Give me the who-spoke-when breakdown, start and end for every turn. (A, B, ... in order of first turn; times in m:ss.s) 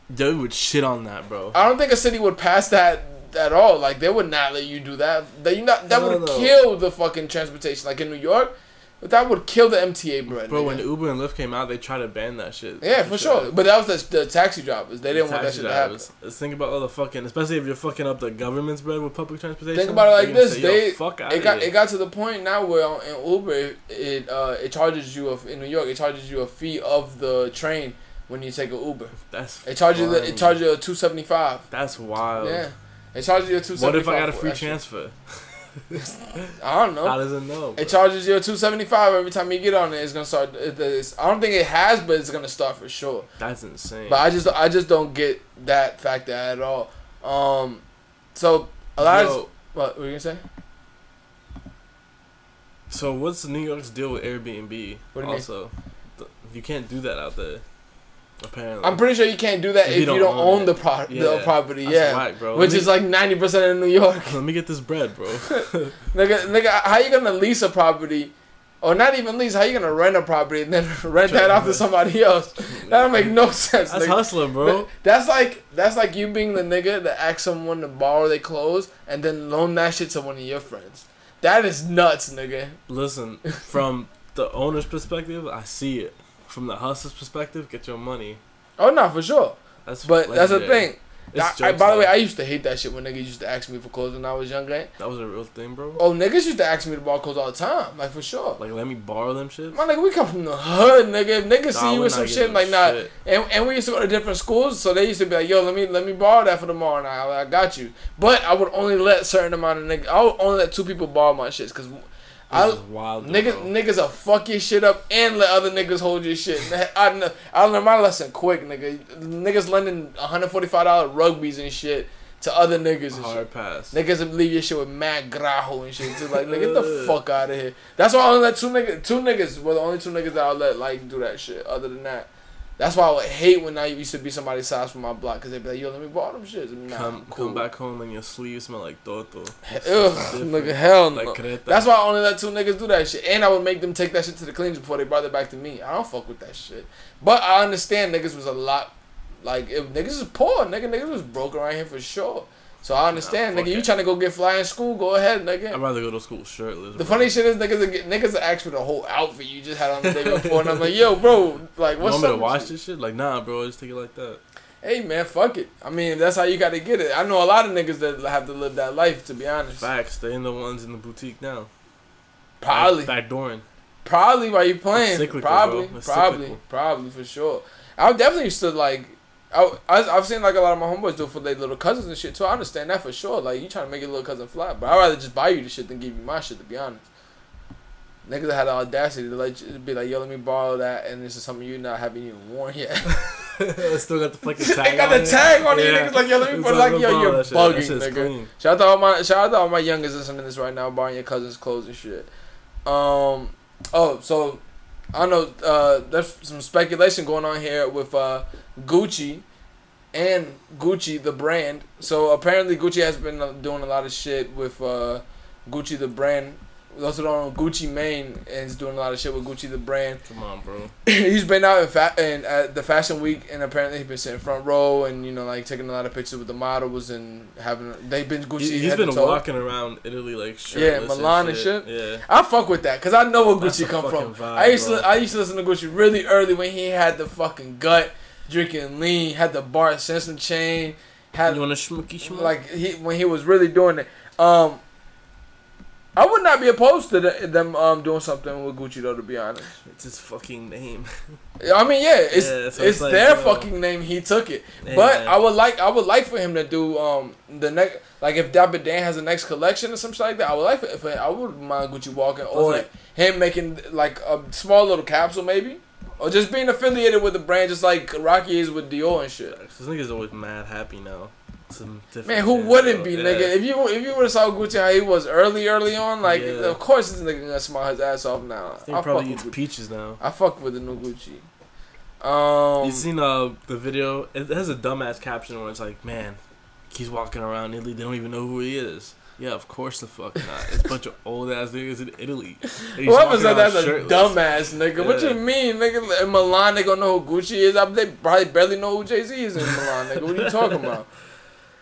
0:00.1-0:01.6 A
0:01.5-0:10.8 B
0:05.9-0:06.6 A
0:10.3-0:13.5 A
0:12.8-0:16.0 B
0:15.1-0:21.7 A
0:19.7-0:31.6 B
0:29.3-0:30.6 A
0:31.7-0:32.6 A
0:32.4-0:34.8 B
0:33.7-0:36.5 A
0:36.6-0:37.2 B
0:37.0-0:38.0 A
0:37.8-0:43.3 B
0:43.4-0:44.3 A
0:44.1-0:47.8 B
0:48.3-0:50.4 B
0:49.0-0:49.5 A
0:52.9-0:57.6 A
0:55.1-0:55.4 B
0:58.4-0:59.0 A
0:58.8-1:04.4 B
0:59.8-1:02.9 A
1:04.2-1:06.0 A
1:05.5-1:22.8 B
1:11.2-1:11.8 A
1:12.7-1:13.3 A
1:13.8-1:14.9 A
1:22.9-1:28.4 A
1:28.8-1:34.9 B
1:29.8-1:32.1 A
1:35.0-1:36.0 A
1:36.0-1:38.6 B
1:38.6-1:39.8 A
1:39.7-2:17.6 B
1:41.7-1:43.1 A
1:52.5-1:53.7 A
2:03.1-2:04.0 A
2:06.1-2:07.2 A
2:16.9-2:21.9 A
2:19.7-2:28.9 B
2:29.4-2:35.8 B
2:33.1-2:33.9 A
2:35.7-2:37.3 A
2:37.0-2:42.7 B
2:40.0-2:40.9 A
2:42.0-2:44.4 A
2:44.8-2:49.9 B
2:49.8-2:51.7 A
2:52.6-2:53.1 B
2:52.7-2:53.6 A
2:54.0-3:07.0 B
2:54.9-2:56.6 A
3:08.2-3:13.2 B
3:13.1-3:18.5 A
3:14.6-3:22.3 B
3:22.8-3:24.6 B
3:25.1-3:29.4 B
3:30.1-3:40.2 B
3:40.2-3:40.9 A
3:41.0-3:49.4 B
3:48.6-3:52.2 A
3:50.7-4:01.6 B
3:53.6-3:55.1 A
4:01.4-4:02.5 A
4:02.2-4:04.8 B
4:06.2-4:09.7 B
4:09.8-4:11.4 A
4:11.6-4:29.6 B
4:12.3-4:13.7 A
4:14.8-4:15.4 A
4:22.5-4:22.9 A
4:29.5-4:33.6 A
4:32.2-4:39.5 B
4:36.2-4:36.8 A
4:38.8-4:40.2 A
4:40.2-4:41.4 B
4:42.2-4:43.1 B
4:42.8-4:46.4 A
4:46.9-4:54.4 A
4:53.0-5:01.1 B
4:54.9-4:55.4 A
4:59.6-5:00.9 A